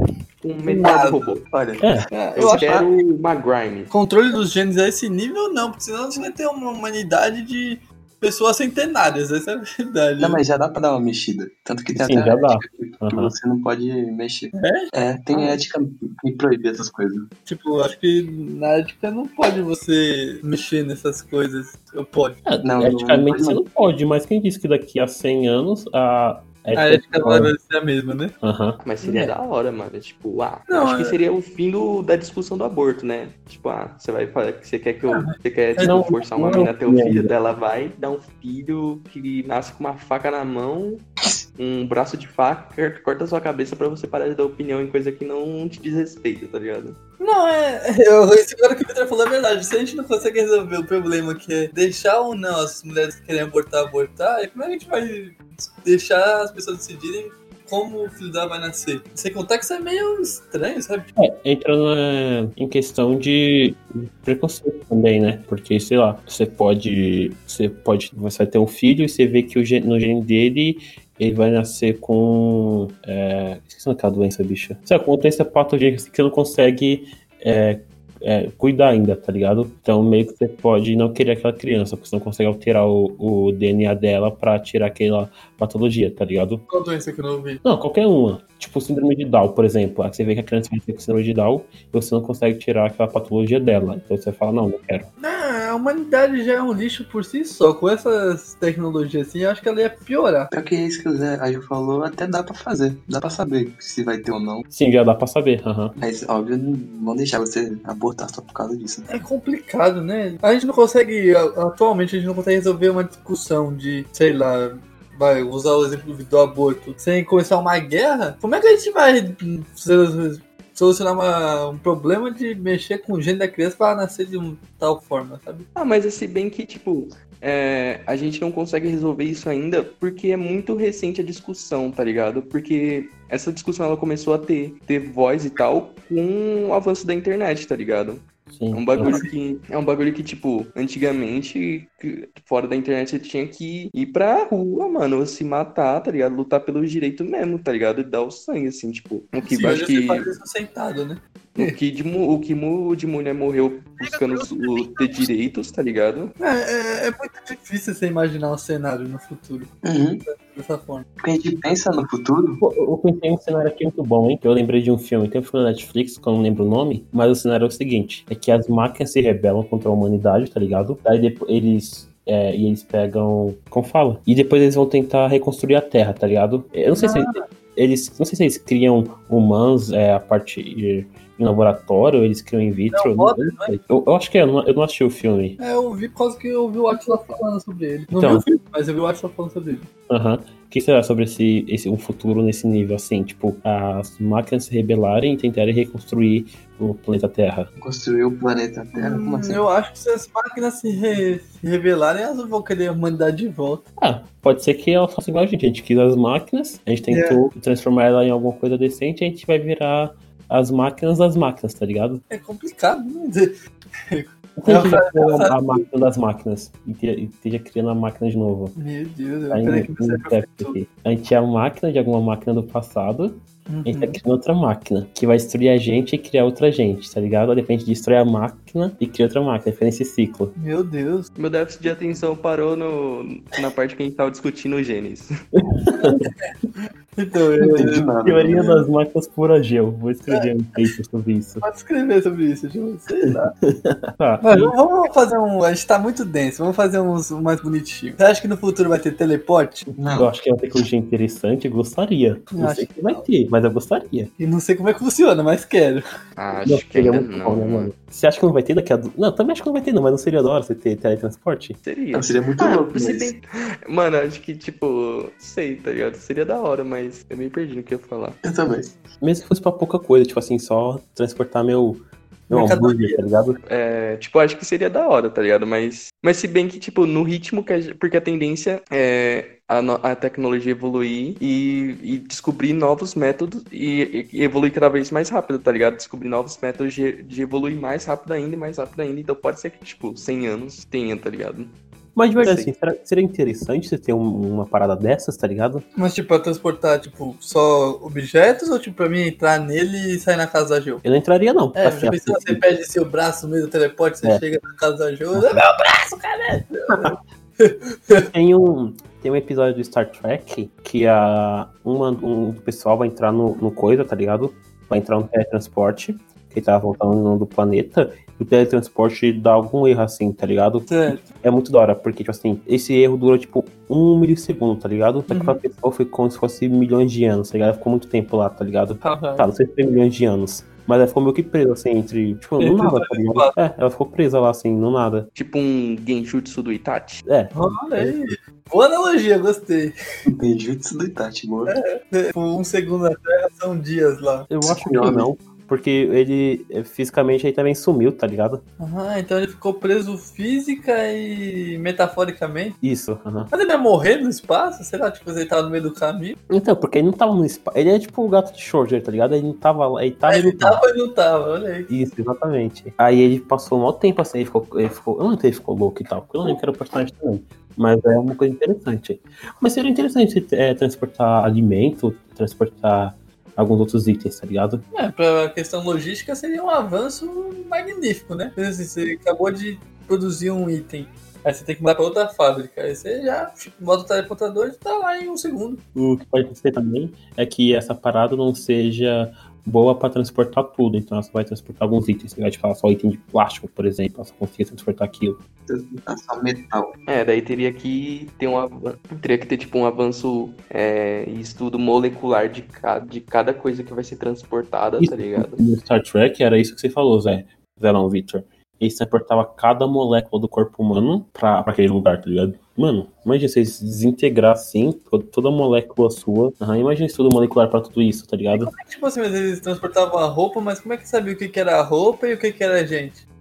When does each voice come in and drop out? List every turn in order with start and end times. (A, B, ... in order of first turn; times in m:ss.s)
0:00.4-0:01.4 A
0:00.6-0:01.2 B
0:01.5-0:02.9 C
0:01.8-0:02.0 D
0:02.1-0:02.8 B
0:02.4-0:03.9 A
0:03.9-0:10.4 B
0:10.2-0:17.3 C
0:11.9-0:13.3 D
0:14.5-0:15.6 B
0:17.4-0:22.4 B
0:22.4-0:27.5 D
0:22.6-0:23.6 C
0:26.7-0:28.3 B
0:28.4-0:28.8 D
0:28.8-0:47.0 A
0:29.0-0:29.3 B
0:30.7-0:31.2 B
0:35.1-0:36.2 B
0:35.8-0:37.3 D
0:47.2-1:01.1 B
1:01.2-1:26.6 D
1:26.7-1:27.6 B
1:27.6-1:35.1 D
1:35.2-1:40.5 B
1:40.5-1:44.6 C
1:44.7-1:46.0 D
1:46.0-1:49.1 C
1:49.1-2:05.7 B
2:05.8-2:30.3 A
2:18.5-2:19.2 D
2:19.0-2:19.3 B
2:29.4-2:31.7 B
2:31.6-2:36.3 A
2:34.0-2:35.3 B
2:36.4-2:39.7 B
2:39.8-2:40.2 C
2:40.2-2:41.0 B
2:41.2-2:42.6 C
2:42.6-3:05.6 D
2:56.9-2:57.4 B
3:02.9-3:03.7 B
3:05.6-3:09.9 B
3:08.1-3:08.4 D
3:10.1-3:17.7 D
3:17.8-3:19.6 C
3:19.0-3:23.8 B
3:24.0-3:32.2 D
3:27.1-3:27.4 B
3:32.3-3:33.5 B
3:34.1-3:35.8 B
3:34.6-3:38.7 D
3:38.8-3:40.8 B
3:39.5-3:50.5 D
3:43.7-3:44.2 B
3:50.6-3:51.3 B
3:51.4-3:55.3 A
3:55.7-3:56.3 D
3:55.9-3:56.4 B
3:57.2-3:58.1 B
3:57.6-3:58.8 C
3:58.2-4:01.6 D
4:01.6-4:03.5 B
4:03.6-4:04.7 D
4:04.4-4:09.8 B
4:09.9-4:10.3 C
4:10.2-4:14.3 D
4:12.5-4:13.2 B
4:14.4-4:16.0 B
4:16.4-4:17.9 A
4:16.7-4:21.8 D
4:21.8-4:28.4 A
4:22.1-4:23.3 C
4:28.4-4:29.0 C
4:29.2-4:33.6 D
4:32.5-4:33.2 B
4:33.6-4:51.7 A
4:52.1-4:55.8 D
4:52.4-4:52.7 A
4:55.9-5:01.0 B
5:01.0-5:02.6 D
5:01.8-5:08.3 B
5:05.3-5:05.6 D
5:06.9-5:07.2 D
5:08.3-5:35.3 D
5:20.9-5:21.3 B
5:25.3-5:25.6 B
5:29.0-5:29.5 B
5:32.6-5:33.6 B
5:35.3-5:37.2 A
5:37.2-5:38.2 D
5:37.5-5:39.9 B
5:40.2-5:41.8 C
5:41.7-5:44.5 B
5:44.5-5:48.6 D
5:44.6-5:45.3 C
5:48.8-5:52.8 B
5:52.8-5:53.5 D
5:53.5-5:56.4 B
5:56.5-6:00.8 D
6:00.3-6:01.9 B
6:01.9-6:14.8 D
6:14.9-6:25.8 B
6:25.9-6:35.4 D
6:35.7-6:37.0 C
6:37.1-6:45.6 A
6:45.0-6:58.7 D
6:58.5-7:03.2 B